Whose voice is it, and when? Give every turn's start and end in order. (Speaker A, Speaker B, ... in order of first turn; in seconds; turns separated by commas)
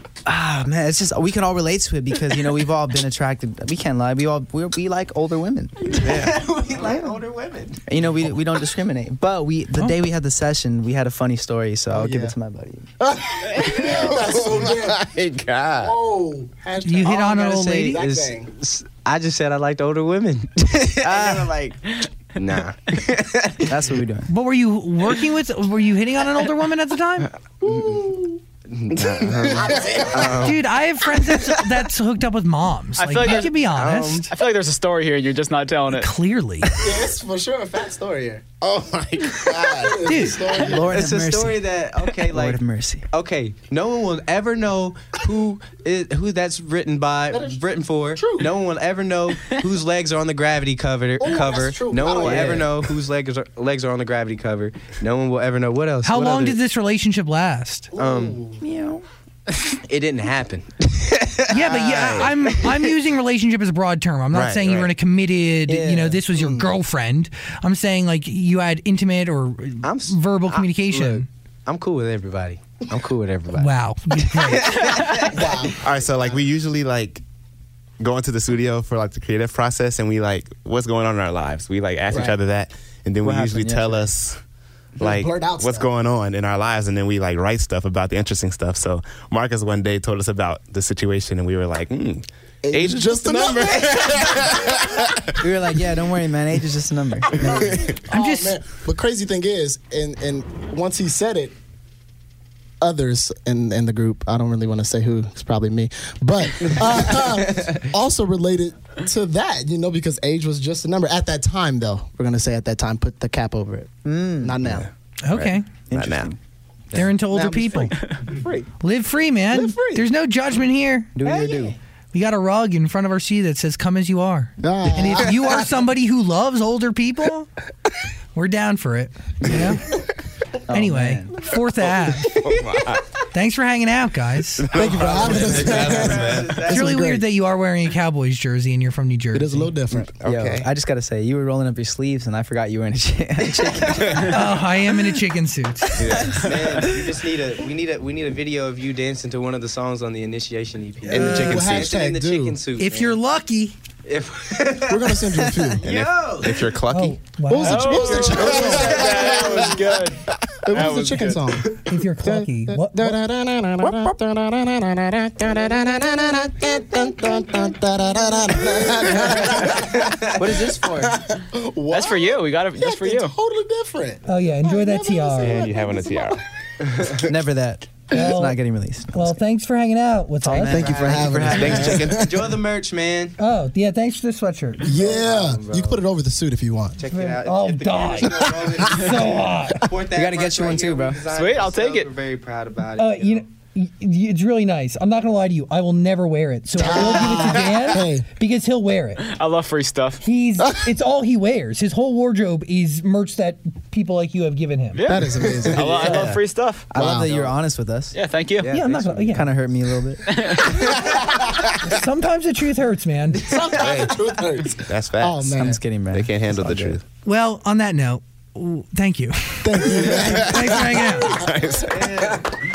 Speaker A: 0.2-6.2, Speaker B: 5.9-8.0, Speaker C: 6.0-6.3, Speaker D: 6.8-7.1, Speaker A: 7.9-12.9, Speaker D: 11.9-12.3, Speaker D: 13.0-15.1, Speaker C: 13.6-15.9, Speaker D: 15.8-18.5, Speaker E: 16.8-18.0, Speaker B: 17.0-24.0, Speaker A: 21.1-21.5, Speaker A: 23.6-24.3, Speaker E: 24.3-27.3, Speaker D: 27.6-28.4, Speaker B: 28.7-30.6, Speaker C: 28.9-30.0, Speaker D: 29.2-30.6, Speaker E: 30.4-34.3, Speaker F: 33.0-33.6, Speaker B: 33.2-34.3, Speaker F: 34.3-36.1, Speaker E: 35.9-36.7, Speaker D: 36.8-38.5, Speaker C: 38.6-40.3, Speaker D: 39.4-41.0, Speaker E: 40.0-40.5, Speaker A: 40.5-41.6, Speaker B: 40.6-42.6, Speaker A: 42.3-43.1, Speaker B: 43.1-56.6, Speaker D: 47.3-47.6, Speaker D: 48.1-48.5, Speaker D: 51.2-52.9, Speaker A: 52.2-52.7, Speaker E: 56.0-57.9, Speaker D: 57.9-58.6, Speaker B: 58.0-58.4, Speaker A: 58.6-59.0, Speaker B: 59.7-61.5, Speaker E: 61.5-71.3, Speaker C: 61.5-62.5, Speaker C: 64.3-64.9, Speaker A: 65.7-66.2, Speaker D: 66.3-66.7, Speaker B: 69.8-73.7, Speaker E: 73.6-74.7, Speaker B: 74.3-75.7, Speaker D: 75.1-76.4, Speaker C: 75.8-77.2, Speaker C: 78.0-84.4, Speaker D: 82.1-82.4, Speaker A: 83.2-84.1, Speaker D: 85.0-85.9, Speaker C: 85.0-95.4, Speaker D: 92.6-95.1, Speaker A: 95.4-97.7, Speaker D: 97.3-101.5, Speaker C: 97.4-97.9, Speaker E: 98.1-98.6, Speaker D: 102.8-114.9, Speaker A: 114.0-114.8, Speaker E: 115.2-115.7, Speaker C: 115.3-116.3, Speaker A: 115.9-116.4, Speaker E: 116.9-118.0, Speaker D: 117.3-118.7, Speaker E: 118.8-121.6, Speaker D: 119.5-120.1, Speaker A: 121.2-121.8, Speaker E: 122.1-127.5, Speaker D: 124.6-125.7, Speaker E: 128.3-130.0, Speaker A: 130.7-131.4, Speaker E: 130.7-132.4, Speaker C: 132.1-133.1, Speaker E: 133.3-134.7, Speaker C: 134.6-136.7, Speaker D: 134.7-137.3, Speaker B: 135.0-136.9, Speaker E: 136.7-139.7, Speaker D: 139.3-140.1, Speaker C: 140.2-140.7, Speaker A: 140.2-144.5, Speaker C: 144.1-144.3, Speaker E: 144.3-146.3, Speaker C: 146.0-146.8, Speaker B: 146.3-153.2, Speaker C: 151.1-152.0, Speaker D: 151.1-152.6, Speaker E: 152.8-153.8, Speaker B: 154.1-156.8, Speaker D: 154.9-155.8, Speaker C: 155.8-157.2, Speaker E: 156.9-158.0, Speaker D: 157.5-159.8, Speaker F: 157.6-161.4, Speaker B: 158.1-159.7, Speaker C: 158.2-159.8, Speaker C: 160.3-160.9, Speaker D: 160.7-176.4, Speaker E: 161.8-163.2, Speaker C: 163.8-164.1, Speaker A: 170.3-171.2, Speaker F: 171.9-173.3, Speaker E: 174.3-175.7, Speaker C: 175.4-176.4, Speaker A: 177.2-179.4, Speaker E: 178.1-178.6, Speaker E: 179.1-180.9, Speaker A: 180.4-182.1, Speaker D: 180.6-182.6, Speaker B: 180.8-183.4, Speaker C: 181.5-182.2, Speaker E: 183.4-184.9, Speaker D: 184.8-187.0, Speaker B: 184.9-186.0, Speaker B: 187.0-193.5, Speaker E: 187.1-189.9, Speaker D: 188.7-189.2, Speaker A: 190.1-191.2, Speaker F: 191.3-192.1, Speaker E: 193.0-199.2, Speaker D: 196.8-198.3, Speaker C: 197.4-197.8, Speaker F: 199.2-200.2, Speaker E: 200.2-205.0, Speaker F: 204.9-206.9, Speaker D: 205.1-206.2, Speaker C: 205.8-206.2, Speaker A: 206.1-206.4, Speaker A: 206.9-208.2, Speaker D: 206.9-207.3, Speaker B: 207.2-207.6, Speaker F: 208.1-208.7, Speaker B: 208.6-209.4, Speaker E: 208.7-209.5, Speaker A: 209.2-210.2, Speaker F: 210.2-211.0, Speaker E: 211.7-213.4, Speaker D: 213.5-215.8, Speaker C: 213.8-214.2, Speaker C: 214.9-217.0, Speaker A: 215.6-217.0, Speaker E: 217.2-221.5, Speaker D: 219.6-221.5, Speaker C: 220.1-222.1, Speaker B: 221.9-222.4